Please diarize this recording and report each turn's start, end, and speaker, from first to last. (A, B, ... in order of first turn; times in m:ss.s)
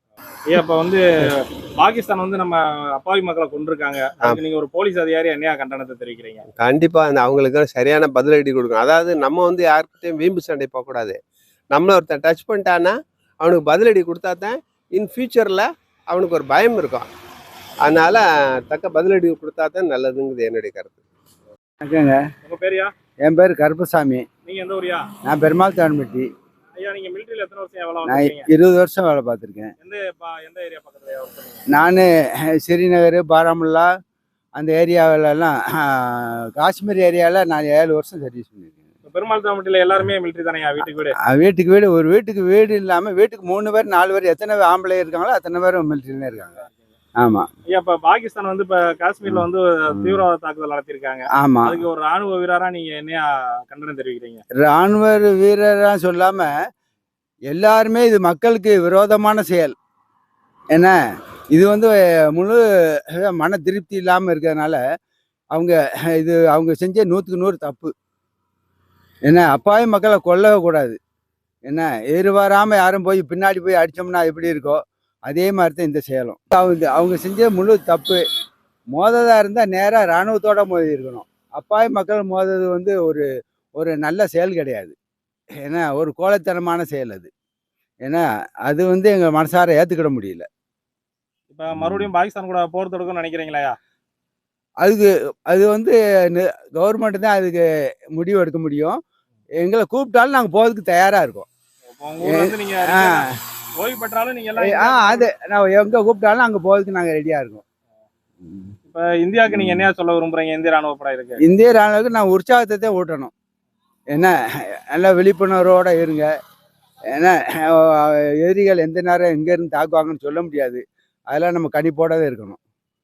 0:00.5-0:06.4 A
0:06.6-0:11.2 B
0:11.7-0:17.1 B
0:17.8-0:21.0 B
0:21.8-0:22.2 C
0:22.4-0:22.9 A
0:23.2-0:24.2 C
0:24.4-0:25.1 A
0:25.2-0:26.3 C
0:26.8-0:28.4 A
0:28.0-0:29.7 C
0:29.8-0:31.6 A
0:31.7-0:33.9 C
0:34.6-0:38.7 C
0:39.0-0:41.1 A
0:41.2-0:46.6 C
0:47.2-0:47.5 C
0:47.7-0:54.4 A
0:49.9-0:50.2 C
0:51.4-0:51.8 C
0:54.6-0:56.5 C
0:57.5-0:59.7 C
1:01.5-1:02.6 C
1:03.1-1:04.8 C
1:05.5-1:07.9 C
1:09.2-1:11.0 C
1:11.7-1:18.2 C
1:18.9-1:23.2 C
1:23.8-1:24.9 C
1:25.6-1:27.3 C
1:28.0-1:30.5 C
1:31.5-1:33.8 A
1:31.8-1:32.1 C
1:34.8-1:39.0 C
1:39.6-1:41.5 C
1:41.9-1:43.2 A
1:42.2-1:43.2 C
1:43.8-1:45.3 A
1:44.6-1:47.6 C
1:48.4-1:48.7 C
1:48.9-1:51.4 A
1:49.5-1:49.9 C
1:51.4-1:53.3 C
1:54.9-1:56.3 C
1:57.1-2:02.6 C